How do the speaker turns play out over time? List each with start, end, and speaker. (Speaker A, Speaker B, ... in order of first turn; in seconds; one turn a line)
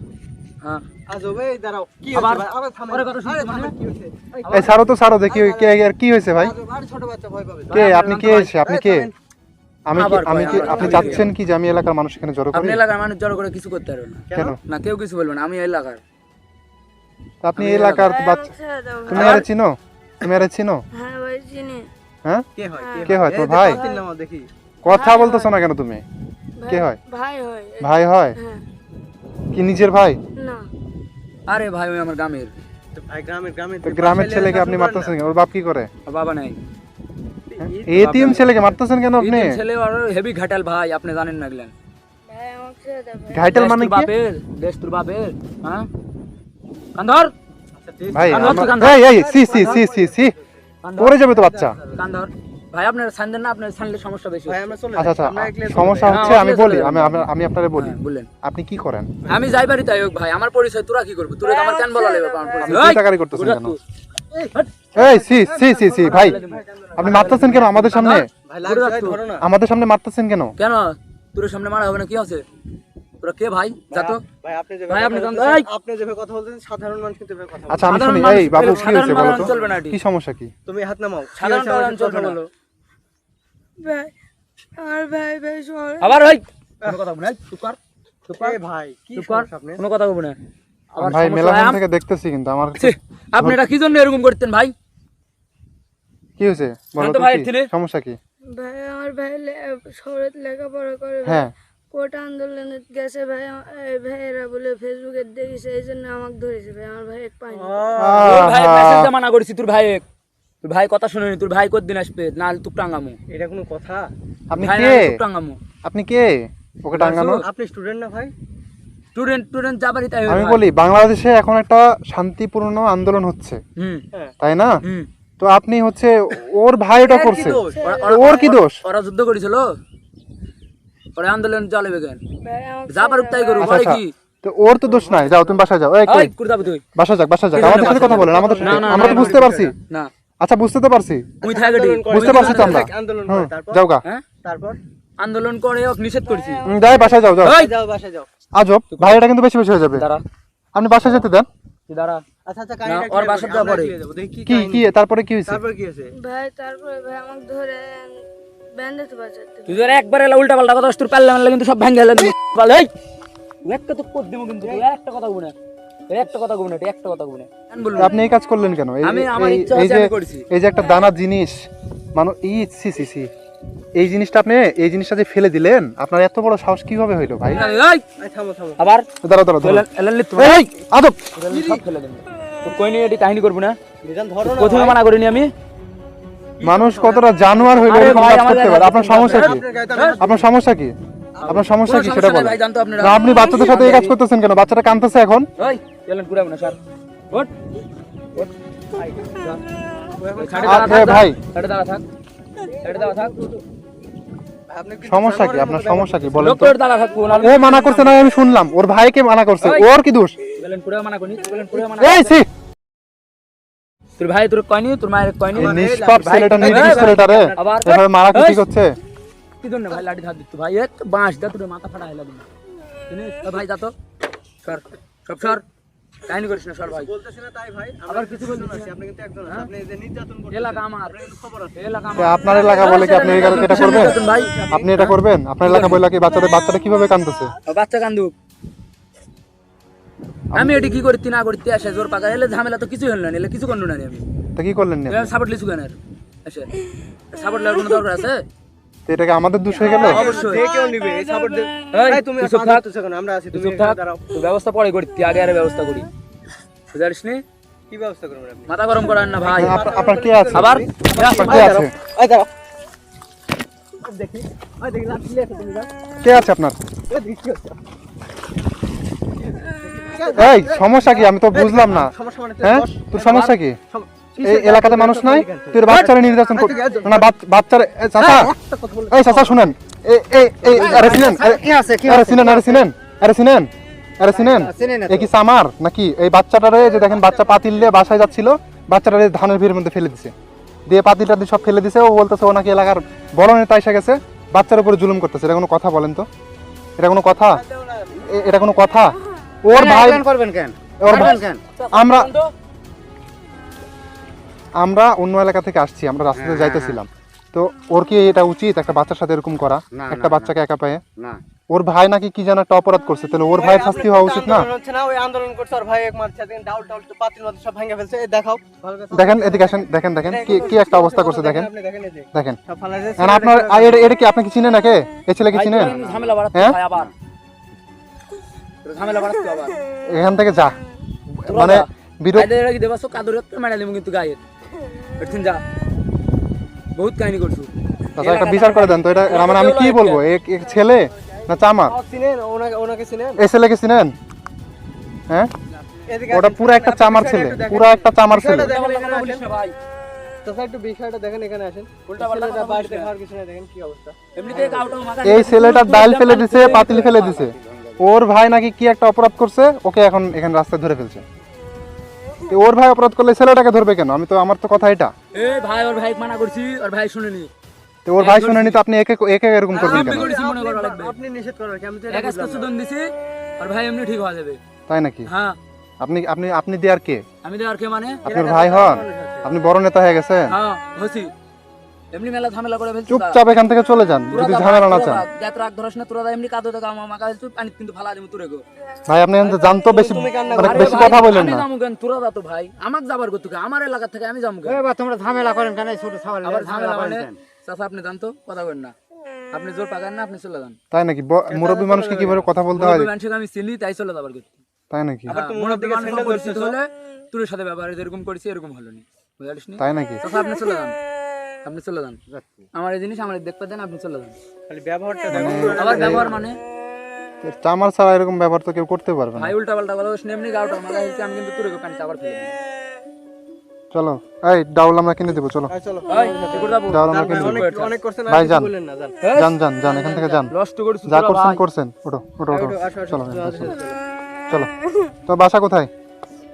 Speaker A: 1.1-4.8
Speaker B: 2.1-3.7
Speaker C: 4.5-6.5
Speaker A: 5.3-5.8
Speaker A: 6.4-9.1
Speaker B: 7.7-8.5
Speaker C: 7.7-9.1
Speaker C: 9.9-12.8
Speaker B: 9.9-11.3
Speaker A: 10.4-11.3
Speaker B: 12.5-16.0
Speaker A: 14.3-14.6
Speaker C: 17.4-18.5
Speaker B: 17.6-18.2
Speaker D: 18.1-19.1
Speaker C: 19.1-20.8
Speaker B: 19.1-19.5
Speaker D: 21.0-21.9
Speaker A: 22.6-24.5
Speaker C: 23.1-23.8
Speaker C: 24.9-26.0
Speaker D: 24.9-25.4
Speaker D: 26.6-27.8
Speaker C: 26.7-27.0
Speaker C: 27.8-28.4
Speaker C: 29.5-30.2
Speaker B: 31.5-32.5
Speaker A: 33.0-35.2
Speaker C: 33.8-35.9
Speaker B: 36.1-36.6
Speaker A: 37.5-38.6
Speaker C: 37.6-39.6
Speaker B: 38.0-38.5
Speaker B: 39.2-41.7
Speaker D: 42.3-43.5
Speaker C: 43.3-44.1
Speaker B: 43.5-45.9
Speaker B: 47.0-47.3
Speaker A: 47.8-50.5
Speaker C: 48.1-50.3
Speaker B: 48.3-49.5
Speaker B: 50.8-51.2
Speaker C: 51.0-51.8
Speaker A: 51.2-52.0
Speaker B: 52.0-54.8
Speaker A: 54.5-56.5
Speaker C: 55.0-59.1
Speaker B: 56.0-58.3
Speaker B: 59.3-63.8
Speaker D: 61.5-62.6
Speaker C: 62.6-63.8
Speaker A: 64.3-69.4
Speaker C: 65.0-66.4
Speaker B: 66.0-69.2
Speaker C: 67.0-68.3
Speaker C: 69.4-70.5
Speaker B: 70.6-72.4
Speaker B: 73.2-74.2
Speaker A: 73.9-79.7
Speaker B: 74.9-75.7
Speaker C: 77.7-80.5
Speaker B: 77.8-80.0
Speaker A: 80.7-82.5
Speaker B: 81.3-82.4
Speaker D: 83.8-84.1
Speaker D: 84.8-86.1
Speaker B: 86.0-87.8
Speaker B: 88.3-88.6
Speaker A: 88.4-89.8
Speaker B: 89.2-90.4
Speaker B: 91.0-91.8
Speaker C: 91.0-93.6
Speaker B: 92.8-94.7
Speaker C: 96.4-98.2
Speaker B: 97.0-97.7
Speaker D: 98.6-101.3
Speaker C: 101.2-101.5
Speaker D: 101.9-107.8
Speaker A: 107.5-108.4
Speaker C: 108.0-109.1
Speaker B: 108.2-110.0
Speaker B: 110.6-113.2
Speaker A: 113.3-114.1
Speaker C: 114.5-115.2
Speaker B: 114.6-115.6
Speaker C: 115.8-117.4
Speaker B: 117.0-117.5
Speaker A: 117.0-118.3
Speaker B: 119.2-120.6
Speaker C: 120.3-123.6
Speaker B: 123.8-124.0
Speaker C: 124.4-124.7
Speaker C: 125.4-128.8
Speaker A: 126.9-128.6
Speaker B: 127.1-129.7
Speaker D: 127.8-128.3
Speaker B: 131.2-132.2
Speaker D: 132.5-133.7
Speaker B: 132.9-134.1
Speaker C: 133.6-136.3
Speaker A: 134.8-135.6
Speaker B: 136.1-136.8
Speaker C: 136.9-139.8
Speaker B: 137.6-140.1
Speaker A: 137.6-139.7
Speaker C: 140.4-141.4
Speaker A: 141.4-143.8
Speaker B: 141.4-142.9
Speaker C: 142.1-144.0
Speaker A: 144.4-144.8
Speaker B: 145.2-146.6
Speaker D: 146.4-146.7
Speaker C: 146.7-147.6
Speaker A: 146.7-148.3
Speaker B: 147.4-147.8
Speaker C: 148.6-150.1
Speaker B: 148.9-149.2
Speaker B: 149.9-150.2
Speaker C: 150.8-151.5
Speaker B: 151.9-152.2
Speaker A: 152.5-154.9
Speaker B: 152.8-153.9
Speaker C: 154.5-155.6
Speaker A: 155.5-156.1
Speaker D: 156.2-158.1
Speaker D: 158.8-159.7
Speaker B: 159.7-162.9
Speaker B: 163.7-165.6
Speaker B: 166.1-168.2
Speaker C: 167.9-171.6
Speaker B: 169.0-170.5
Speaker C: 172.2-173.3
Speaker C: 174.0-177.7
Speaker B: 177.5-178.0
Speaker A: 178.2-178.8
Speaker B: 178.8-179.1
Speaker C: 179.2-181.2
Speaker B: 179.6-180.7
Speaker B: 181.3-183.8
Speaker A: 181.5-181.8
Speaker A: 184.0-185.0
Speaker B: 184.4-185.5
Speaker A: 186.6-188.3
Speaker C: 186.6-189.6
Speaker B: 187.8-190.2
Speaker A: 189.2-190.5
Speaker C: 190.2-190.9
Speaker B: 191.4-194.2
Speaker C: 191.5-195.5
Speaker B: 195.6-196.8
Speaker B: 198.3-199.6
Speaker A: 200.2-201.3
Speaker B: 200.4-202.0
Speaker C: 200.6-201.4
Speaker B: 202.8-203.4
Speaker A: 202.8-203.6
Speaker A: 204.7-206.4
Speaker C: 205.1-206.8
Speaker B: 206.4-208.3
Speaker C: 207.3-210.4
Speaker B: 210.6-212.4
Speaker C: 211.9-212.5
Speaker B: 214.2-218.7
Speaker A: 215.5-217.6
Speaker C: 215.6-219.0
Speaker B: 219.6-222.5
Speaker B: 223.1-223.9
Speaker B: 224.6-225.6
Speaker B: 226.3-227.1
Speaker A: 226.8-231.7
Speaker B: 228.1-228.9
Speaker B: 230.5-234.5
Speaker C: 232.2-234.2
Speaker A: 232.9-235.1
Speaker C: 234.7-237.5
Speaker B: 235.6-236.0
Speaker B: 237.7-238.3
Speaker C: 240.5-241.1
Speaker B: 240.5-244.2
Speaker C: 244.6-245.3
Speaker B: 245.1-246.7
Speaker B: 247.3-248.4
Speaker C: 249.1-250.2
Speaker B: 249.8-250.7
Speaker A: 249.8-254.2
Speaker B: 251.9-252.8
Speaker B: 253.5-256.1
Speaker B: 256.9-257.4
Speaker A: 257.9-258.7
Speaker B: 258.7-259.8
Speaker A: 259.3-262.5
Speaker C: 259.5-260.8
Speaker B: 260.5-261.8
Speaker C: 261.3-261.9
Speaker A: 264.1-265.9
Speaker C: 266.2-266.8
Speaker A: 267.1-267.8
Speaker A: 269.5-277.3
Speaker C: 270.4-273.8
Speaker B: 273.3-273.6
Speaker C: 274.4-278.5
Speaker B: 275.9-277.1
Speaker A: 278.2-279.7
Speaker C: 279.1-290.3
Speaker A: 280.6-280.9
Speaker E: 280.7-282.7
Speaker E: 284.2-285.3
Speaker A: 286.9-288.0
Speaker C: 290.9-296.3
Speaker C: 297.0-297.6
Speaker A: 297.5-298.3
Speaker C: 298.2-300.3
Speaker E: 299.7-301.6
Speaker C: 301.0-302.3
Speaker B: 301.1-302.5
Speaker C: 304.8-311.0
Speaker E: 306.3-307.0
Speaker E: 309.9-310.6
Speaker E: 311.2-311.4
Speaker C: 311.7-314.7
Speaker A: 313.6-324.2
Speaker C: 319.1-321.7
Speaker C: 323.2-326.0
Speaker B: 325.5-327.1
Speaker E: 326.0-326.4
Speaker C: 326.5-326.8
Speaker B: 328.8-329.8
Speaker C: 330.1-330.8
Speaker C: 331.4-332.5
Speaker B: 331.5-334.4
Speaker B: 335.2-335.6
Speaker B: 337.0-340.3
Speaker C: 338.2-341.9
Speaker A: 341.9-343.4
Speaker C: 343.4-344.1
Speaker A: 346.1-349.4
Speaker C: 346.3-348.7
Speaker B: 348.3-349.8
Speaker A: 350.4-354.9
Speaker B: 352.1-353.1
Speaker B: 354.4-357.3
Speaker C: 355.2-361.2
Speaker E: 356.7-358.0
Speaker C: 362.5-365.1
Speaker B: 365.3-367.5
Speaker C: 368.1-370.3
Speaker B: 368.2-368.8
Speaker B: 369.7-371.1
Speaker A: 369.8-372.7
Speaker B: 372.1-374.6
Speaker C: 374.9-375.3
Speaker B: 375.3-375.6
Speaker C: 376.0-377.2
Speaker B: 377.4-378.2
Speaker A: 378.2-379.6
Speaker C: 378.2-380.5
Speaker B: 380.5-381.3
Speaker B: 382.1-383.4
Speaker C: 383.1-385.2
Speaker B: 384.3-388.6
Speaker C: 389.1-391.6
Speaker A: 389.4-391.3
Speaker B: 390.6-394.8
Speaker E: 394.6-397.4
Speaker B: 396.4-398.9
Speaker B: 399.5-400.8
Speaker C: 400.9-403.1
Speaker A: 401.5-402.5
Speaker B: 402.8-404.6
Speaker C: 404.9-405.4
Speaker A: 405.3-406.8
Speaker B: 405.3-411.0
Speaker C: 409.8-410.2
Speaker B: 411.6-412.2
Speaker E: 412.3-412.6
Speaker B: 412.7-414.4
Speaker A: 414.7-416.4
Speaker C: 415.3-416.3
Speaker B: 415.8-416.6
Speaker C: 417.4-419.5
Speaker B: 419.4-422.6
Speaker C: 423.9-425.7
Speaker A: 425.7-429.2
Speaker B: 426.1-428.0
Speaker C: 426.9-427.7
Speaker C: 428.3-428.7
Speaker B: 429.2-431.6
Speaker C: 429.3-430.5
Speaker C: 431.1-433.8
Speaker A: 432.5-434.0
Speaker C: 435.3-435.9